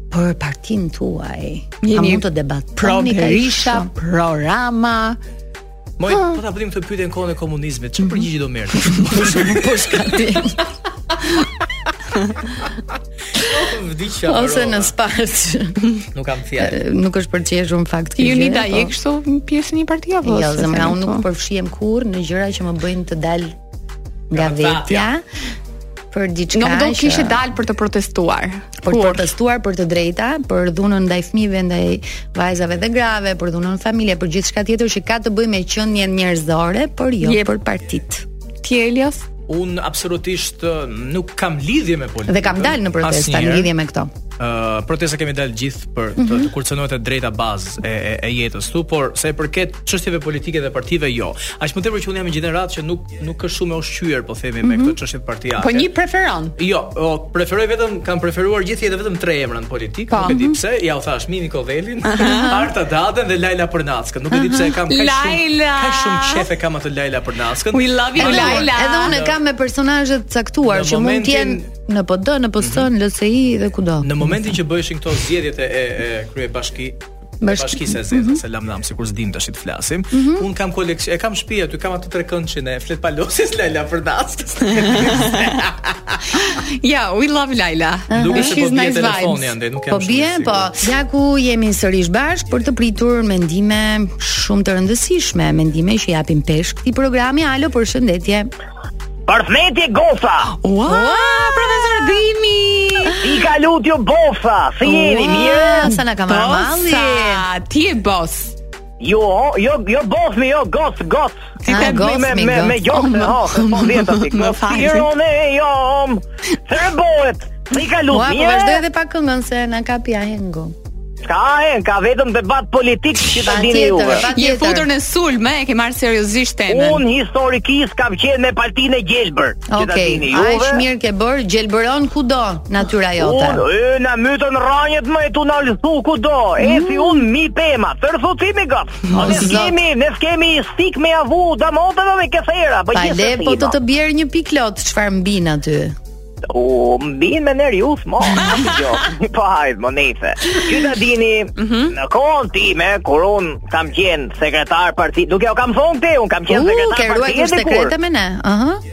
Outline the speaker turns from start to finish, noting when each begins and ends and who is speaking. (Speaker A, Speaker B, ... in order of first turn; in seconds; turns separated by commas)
Speaker A: 0.1-3.9, Speaker B: 1.8-2.2, Speaker B: 2.8-5.2, Speaker C: 6.0-10.3, Speaker A: 9.1-10.6, Speaker C: 13.3-14.9, Speaker A: 14.2-15.9, Speaker C: 16.1-16.8, Speaker A: 16.6-18.9, Speaker B: 18.2-21.2, Speaker A: 20.2-23.6, Speaker A: 24.3-25.2, Speaker C: 24.3-25.1, Speaker A: 26.1-27.4, Speaker B: 26.5-29.3, Speaker A: 28.8-38.2, Speaker B: 37.2-37.5, Speaker B: 38.6-39.2, Speaker C: 39.5-43.7, Speaker A: 42.3-44.1, Speaker C: 44.4-55.9, Speaker A: 46.2-46.5, Speaker A: 54.6-55.0, Speaker B: 55.6-56.5, Speaker C: 56.6-69.4, Speaker B: 60.1-60.4, Speaker A: 60.2-60.6, Speaker B: 62.0-62.5, Speaker A: 62.2-62.7, Speaker A: 64.3-64.7, Speaker B: 64.9-66.5, Speaker B: 67.7-69.2, Speaker A: 68.2-74.3, Speaker C: 70.6-71.7, Speaker C: 72.6-72.9, Speaker C: 74.0-86.2, Speaker A: 77.4-78.4, Speaker A: 80.1-80.5, Speaker B: 85.0-85.3, Speaker B: 86.3-89.5, Speaker A: 88.1-88.6, Speaker C: 88.1-90.7, Speaker A: 89.9-98.5, Speaker D: 99.3-100.5, Speaker B: 100.6-103.2, Speaker A: 100.9-101.9, Speaker D: 103.2-105.9, Speaker A: 104.8-107.4, Speaker B: 105.2-108.5, Speaker D: 109.0-118.8, Speaker B: 111.6-112.2, Speaker A: 111.7-113.3, Speaker B: 113.1-115.1, Speaker A: 118.1-120.7, Speaker D: 121.2-124.3, Speaker A: 123.3-124.9, Speaker B: 124.3-127.0, Speaker D: 126.7-130.8, Speaker A: 129.7-133.6, Speaker D: 133.2-143.7, Speaker A: 136.6-137.3, Speaker A: 139.1-139.8, Speaker A: 142.9-145.9, Speaker D: 146.5-157.9, Speaker B: 151.6-151.9, Speaker A: 156.5-158.8